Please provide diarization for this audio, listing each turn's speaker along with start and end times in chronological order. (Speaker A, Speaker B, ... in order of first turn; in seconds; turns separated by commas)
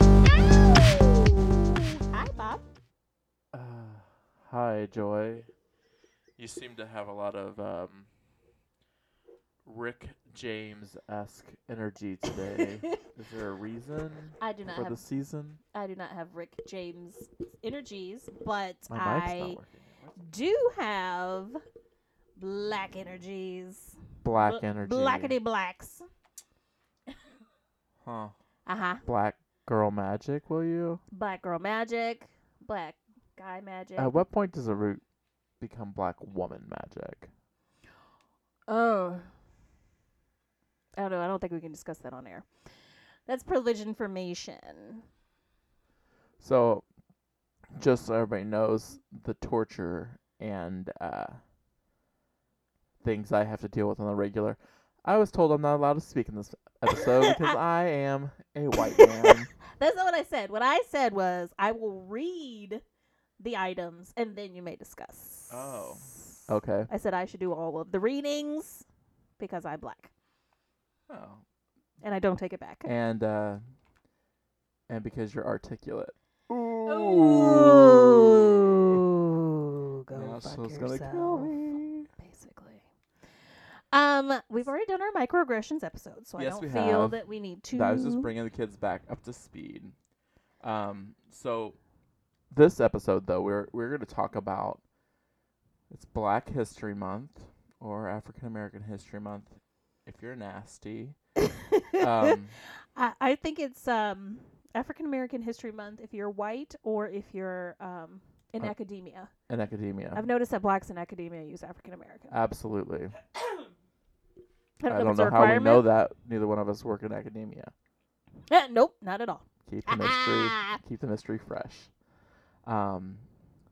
Speaker A: 0.4-2.6, Speaker B: 3.5-5.5, Speaker B: 6.4-8.1, Speaker B: 9.7-15.6, Speaker A: 12.5-13.0, Speaker A: 14.4-15.0, Speaker A: 15.7-19.6, Speaker B: 18.9-20.2, Speaker A: 20.2-21.6, Speaker A: 22.4-26.1, Speaker B: 24.2-25.4, Speaker B: 28.0-28.4, Speaker A: 28.7-29.0, Speaker B: 29.1-31.0, Speaker A: 31.1-34.1, Speaker B: 34.0-35.0, Speaker B: 35.6-37.3, Speaker A: 38.7-39.3, Speaker A: 41.0-42.5, Speaker A: 43.3-45.0, Speaker B: 46.4-46.9, Speaker B: 47.8-51.4, Speaker B: 53.0-59.5, Speaker A: 57.1-57.6, Speaker A: 58.8-62.8, Speaker A: 63.4-66.3, Speaker B: 65.5-66.9, Speaker A: 66.9-68.9, Speaker A: 69.4-70.1, Speaker B: 71.1-71.4, Speaker A: 72.0-72.9, Speaker B: 72.8-73.6, Speaker B: 74.9-79.0, Speaker A: 76.9-82.8, Speaker B: 80.1-82.1, Speaker A: 83.9-88.3, Speaker B: 86.4-87.2, Speaker B: 87.7-90.0, Speaker B: 90.6-91.8, Speaker B: 92.5-94.8, Speaker B: 95.9-101.2, Speaker A: 101.4-102.4, Speaker B: 102.0-102.6, Speaker A: 103.0-109.3, Speaker B: 109.5-110.3, Speaker A: 110.2-112.3, Speaker B: 112.3-113.2, Speaker A: 114.8-115.9, Speaker B: 114.9-117.7, Speaker A: 118.5-120.8, Speaker B: 119.7-121.9, Speaker B: 122.7-123.2